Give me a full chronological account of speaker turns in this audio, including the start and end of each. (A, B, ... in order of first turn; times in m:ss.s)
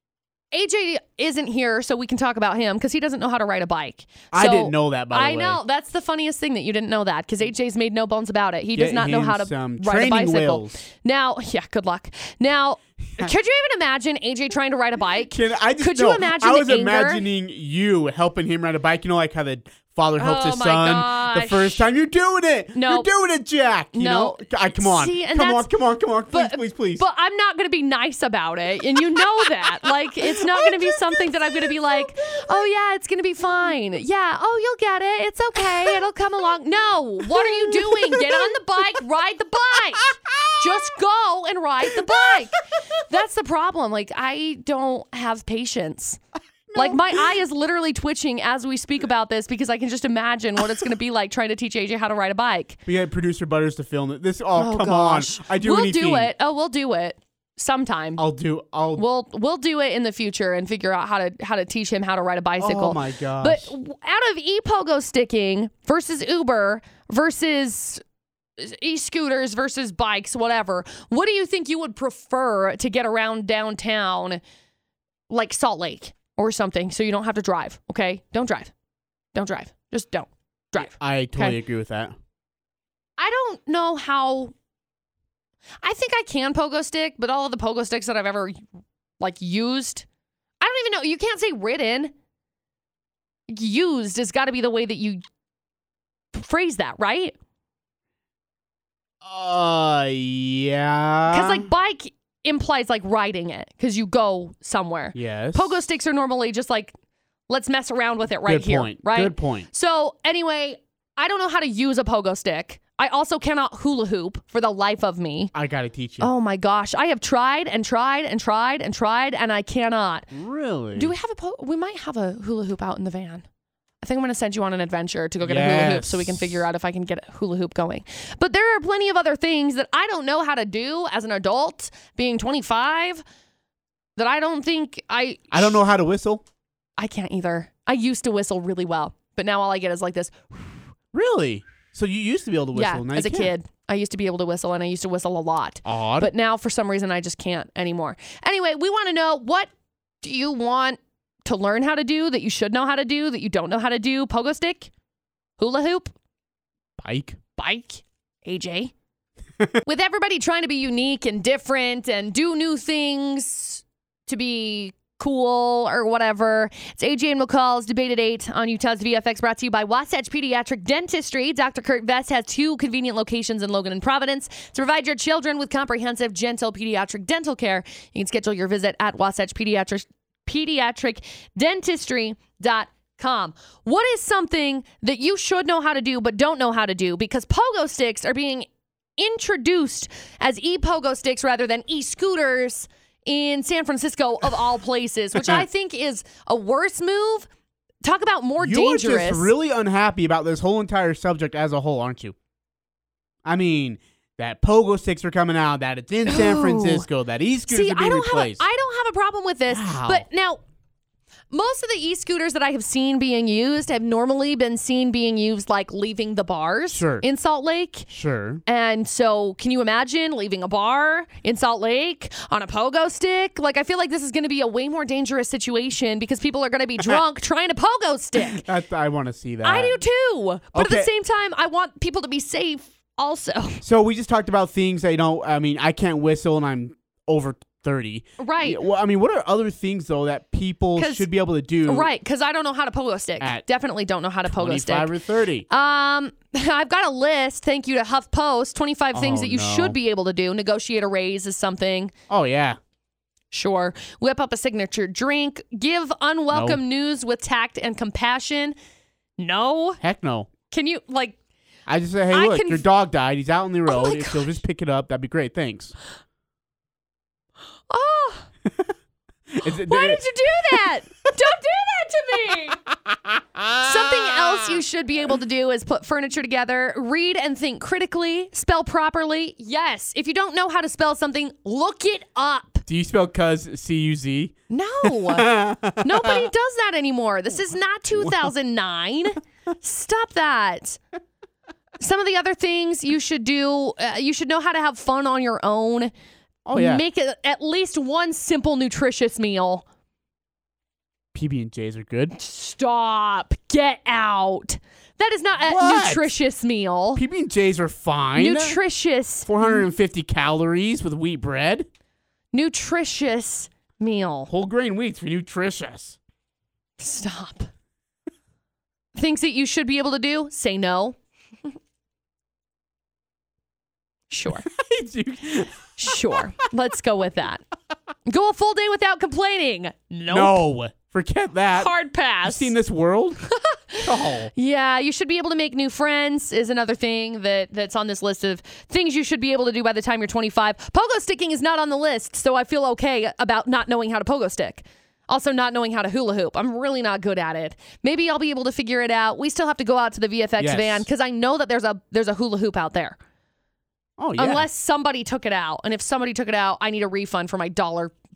0:00.5-0:17.3 A
0:04.3-0:05.6 B
0:08.8-0:10.8 B
0:15.3-0:27.0 B
0:20.2-0:21.8 A
0:22.7-0:23.1 A
0:23.9-0:25.7 A
0:26.3-0:46.2 A
0:30.4-0:32.5 B
0:37.3-0:38.5 B
0:40.0-0:40.6 B
0:46.7-0:47.3 B
0:46.8-0:52.8 A
0:52.9-0:56.3 B
0:54.6-0:58.2 A
0:58.2-0:59.0 B
0:59.0-1:08.0 A
1:02.6-1:03.7 B
1:08.6-1:14.4 A
1:15.3-1:18.7 A
1:19.4-1:21.6 A
1:20.8-1:22.1 B
1:23.2-1:24.5 A
1:25.8-1:28.6 A
1:29.2-1:30.0 A
1:30.6-1:32.1 A
1:33.5-1:35.2 A
1:36.3-1:37.4 A
1:39.2-1:41.7 B
1:41.3-1:46.9 A
1:45.1-1:45.8 B
1:47.5-1:55.5 A
1:48.5-1:49.7 B
1:55.5-1:56.3 B
1:56.2-2:00.3 A
2:00.3-2:01.1 B
2:01.0-2:03.4 A
2:04.0-2:13.2 A
2:05.4-2:06.7 B
2:14.2-2:15.8 A
2:15.5-2:16.4 B
2:17.0-2:20.8 A
2:21.1-2:23.5 B
2:22.7-2:29.7 A
2:25.8-2:26.3 B
2:30.2-2:34.9 A
2:35.6-2:36.1 A
2:37.0-2:37.4 B
2:37.6-2:38.9 A
2:39.8-3:08.7 A
3:09.2-3:17.5 A
3:15.4-3:15.7 B
3:18.0-3:19.5 A
3:18.6-3:22.4 B
3:23.4-3:28.6 B
3:26.3-3:27.0 A
3:27.7-3:30.6 A
3:29.7-3:30.3 B
3:31.5-3:38.1 A
3:36.9-3:37.2 B
3:38.1-3:38.6 B
3:38.7-3:48.6 A
3:48.4-3:50.0 B
3:49.6-3:53.8 A
3:50.7-3:51.1 B
3:53.8-4:02.1 B
3:58.4-3:58.8 A
4:01.0-4:01.3 A
4:01.8-4:05.1 A
4:04.4-4:05.7 B
4:05.7-4:12.1 A
4:09.1-4:10.0 B
4:12.3-4:12.8 B
4:13.5-4:18.8 A
4:16.5-4:16.8 B
4:19.4-4:20.0 A
4:20.0-4:20.5 B
4:20.7-4:21.4 A
4:21.9-4:25.9 B
4:22.3-4:22.8 A
4:23.9-4:24.6 A
4:27.9-4:28.5 A
4:29.5-4:30.2 B
4:29.6-4:32.8 A
4:32.9-4:34.8 B
4:33.8-4:42.8 A
4:42.9-4:46.5 B
4:44.7-4:51.0 A
4:48.2-4:48.5 B
4:52.0-4:56.1 A
4:56.7-4:57.0 B
4:56.7-4:59.8 A
5:01.3-5:02.4 B
5:02.4-5:07.2 A
5:05.7-5:06.4 B
5:07.2-5:08.8 B
5:08.4-5:09.8 A
5:09.5-5:11.9 B
5:12.5-5:14.5 A
5:14.5-5:16.2 B
5:17.0-5:17.7 A
5:19.2-5:21.2 A
5:24.3-5:24.7 A
5:24.6-5:26.4 B
5:26.0-5:27.6 A
5:28.3-5:30.6 A
5:30.3-5:31.9 B
5:31.7-5:32.7 A
5:32.4-5:33.4 B
5:33.5-5:53.2 A
5:34.0-5:34.5 B
5:50.6-5:51.1 B
5:54.2-5:54.7 B
5:54.4-5:58.1 A